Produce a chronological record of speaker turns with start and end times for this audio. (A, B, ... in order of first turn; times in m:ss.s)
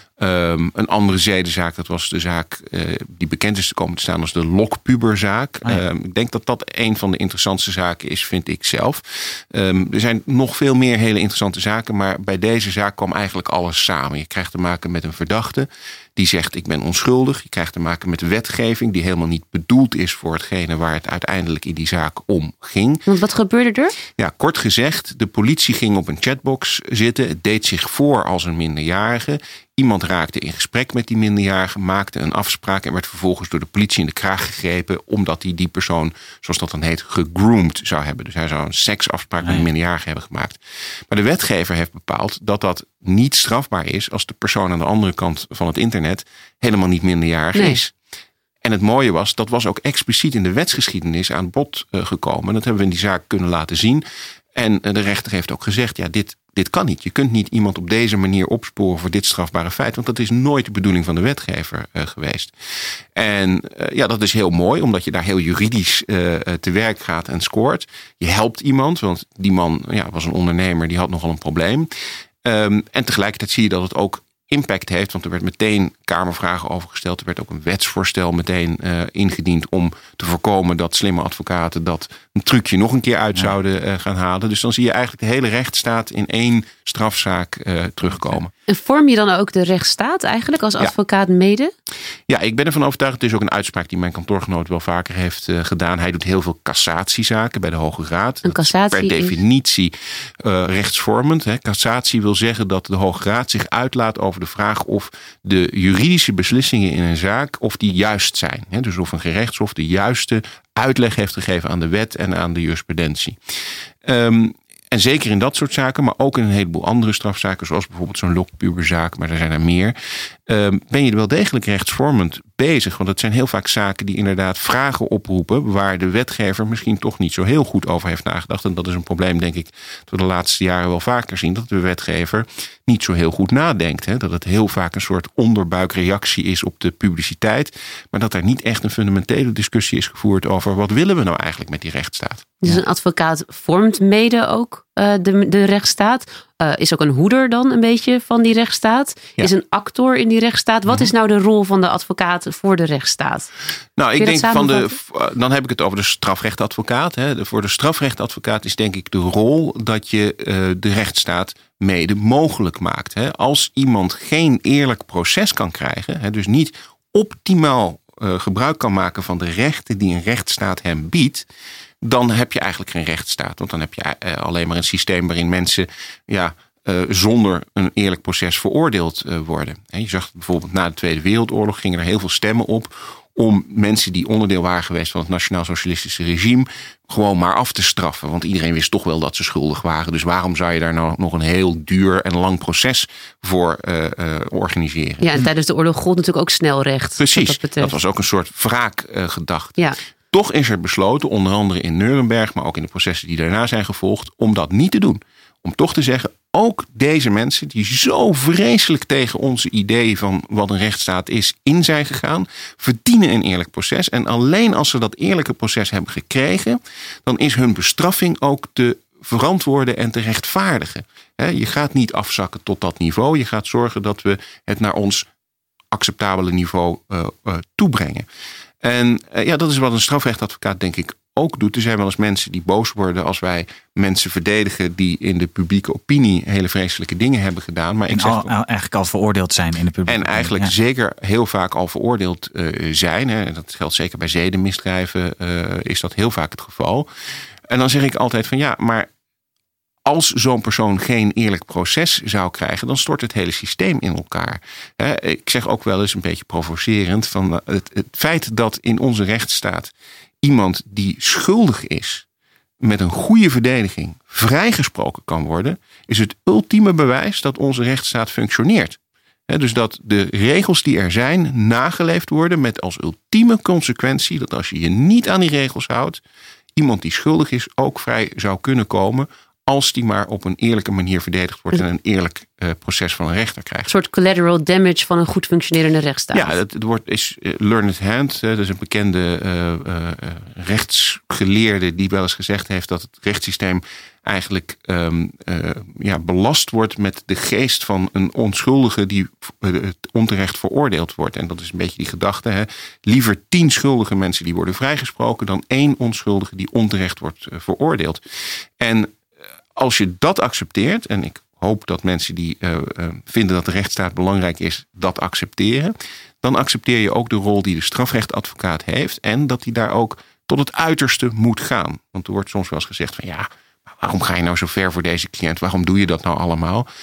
0:00.2-0:23.1 A
0:23.1-0:24.0 B
0:24.1-0:47.9 A
0:47.5-0:47.8 B
0:48.6-1:02.5 A
1:03.1-1:11.9 A
1:12.4-1:28.5 A
1:28.7-1:31.7 B
1:32.3-1:53.4 A
1:38.4-1:39.4 B
1:54.0-2:00.0 A
2:00.5-2:22.8 A
2:22.6-2:33.5 B
2:34.0-2:51.5 A
2:34.2-2:35.0 B
2:52.0-3:15.3 A
3:15.2-3:18.0 B
3:17.2-3:45.3 A
3:45.9-3:48.3 A
3:48.8-3:58.5 A
3:58.1-4:00.7 C
4:00.1-4:07.1 A
4:07.7-4:09.1 A
4:10.0-4:22.2 A
4:22.8-4:36.2 A
4:36.8-4:43.9 A
4:43.9-4:46.5 B
4:46.3-5:08.2 A
5:08.8-5:09.2 A
5:09.8-5:26.9 A